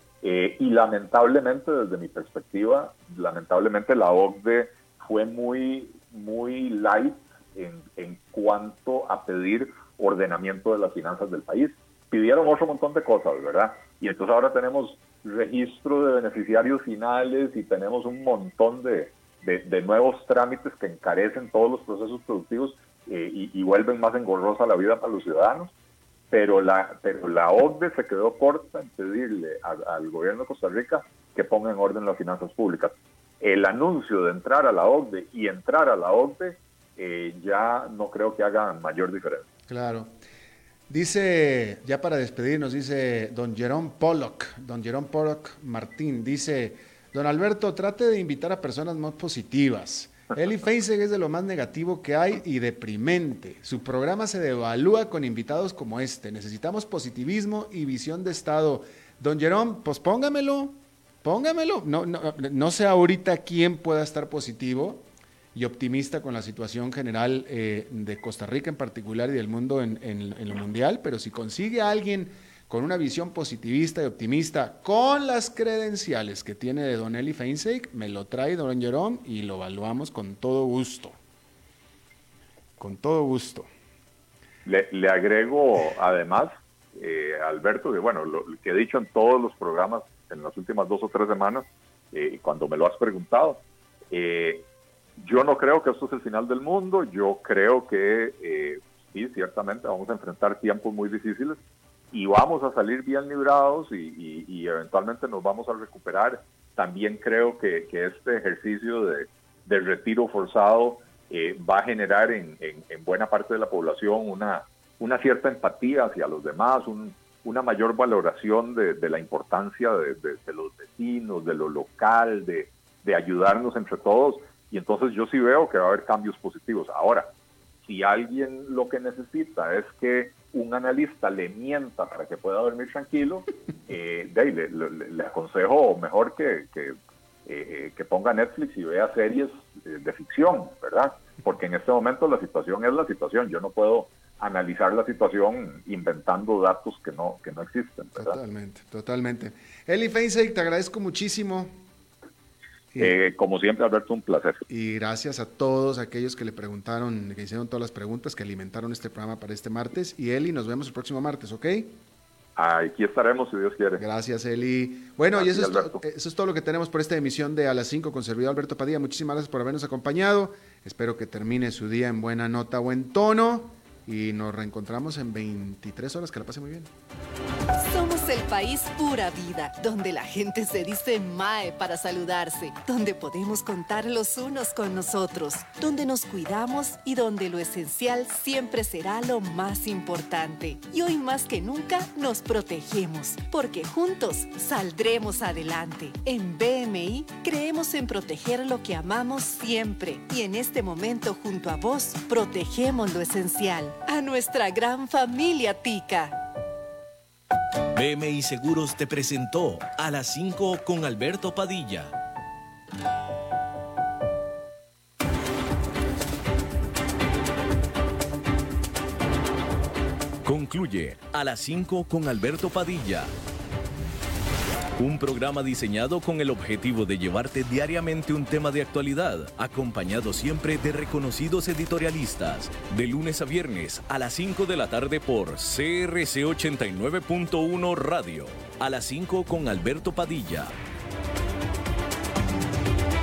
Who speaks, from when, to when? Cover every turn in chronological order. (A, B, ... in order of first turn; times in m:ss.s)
0:00.2-0:25.7 A
0:26.3-0:39.4 A
0:39.7-0:40.1 B
0:40.9-1:21.2 B
1:22.8-1:23.7 B
1:24.6-1:34.6 A
1:35.2-1:41.6 A
1:42.1-2:07.3 A
2:07.8-2:28.3 A
2:28.2-2:31.8 B
2:33.0-2:34.6 A
2:34.7-2:42.0 B
2:42.6-2:44.0 A
2:44.0-2:56.9 B
2:45.4-2:46.0 A
2:57.8-3:26.4 C
3:27.9-3:32.1 D
3:40.4-3:43.3 D
3:45.0-4:00.7 D